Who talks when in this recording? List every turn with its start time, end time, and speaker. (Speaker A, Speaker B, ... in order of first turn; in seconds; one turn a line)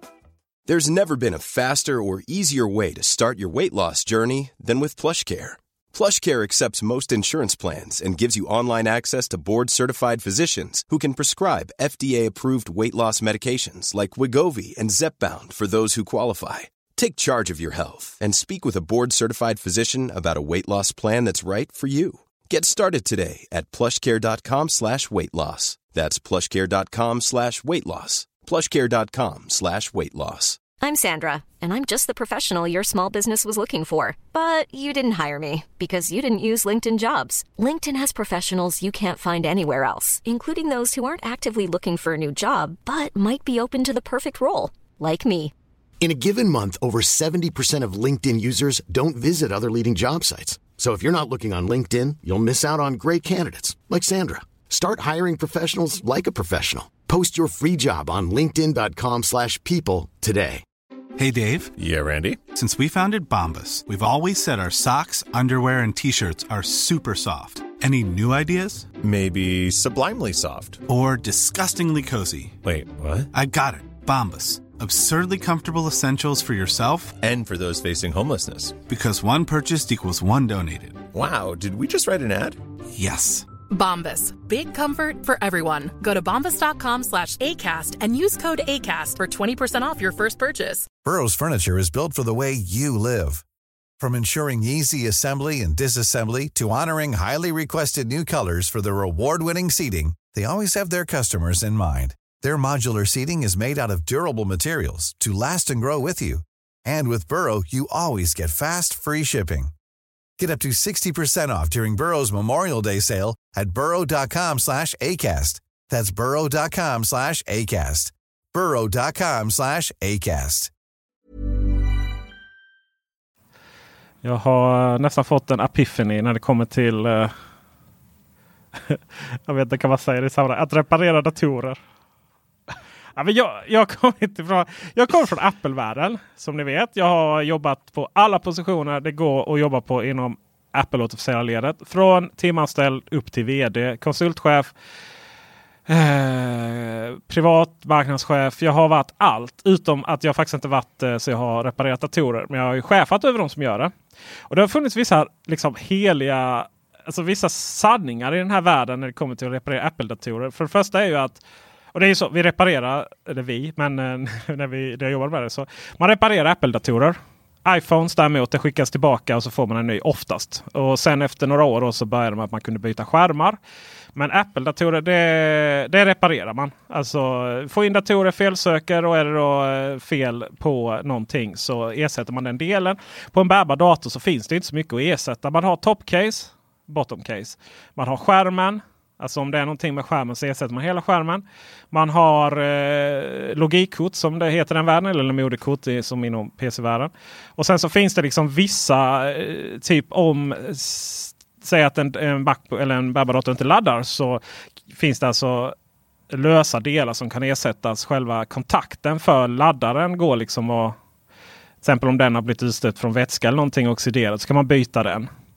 Speaker A: 0.7-30.6
Speaker B: 30.8-45.5
Speaker C: 46.0-60.6
Speaker D: 61.2-61.7
Speaker E: 61.8-62.4
Speaker D: 62.5-68.9
Speaker E: 69.0-70.8
Speaker D: 70.9-72.6
Speaker E: 72.7-73.3
Speaker D: 73.3-77.2
Speaker E: 77.2-78.7
Speaker D: 78.8-81.0
Speaker E: 81.2-82.5
Speaker D: 82.9-83.5
Speaker F: 83.7-90.9
Speaker G: 91.0-93.4
Speaker G: 94.0-109.7
Speaker G: 110.4-120.7
Speaker H: 124.2-127.3
Speaker H: 128.9-131.8
Speaker H: 133.2-144.7
Speaker H: 145.9-153.9
Speaker H: 154.5-161.4
Speaker H: 161.9-173.6
Speaker H: 174.2-205.7
Speaker H: 206.3-210.9
Speaker H: 211.8-215.3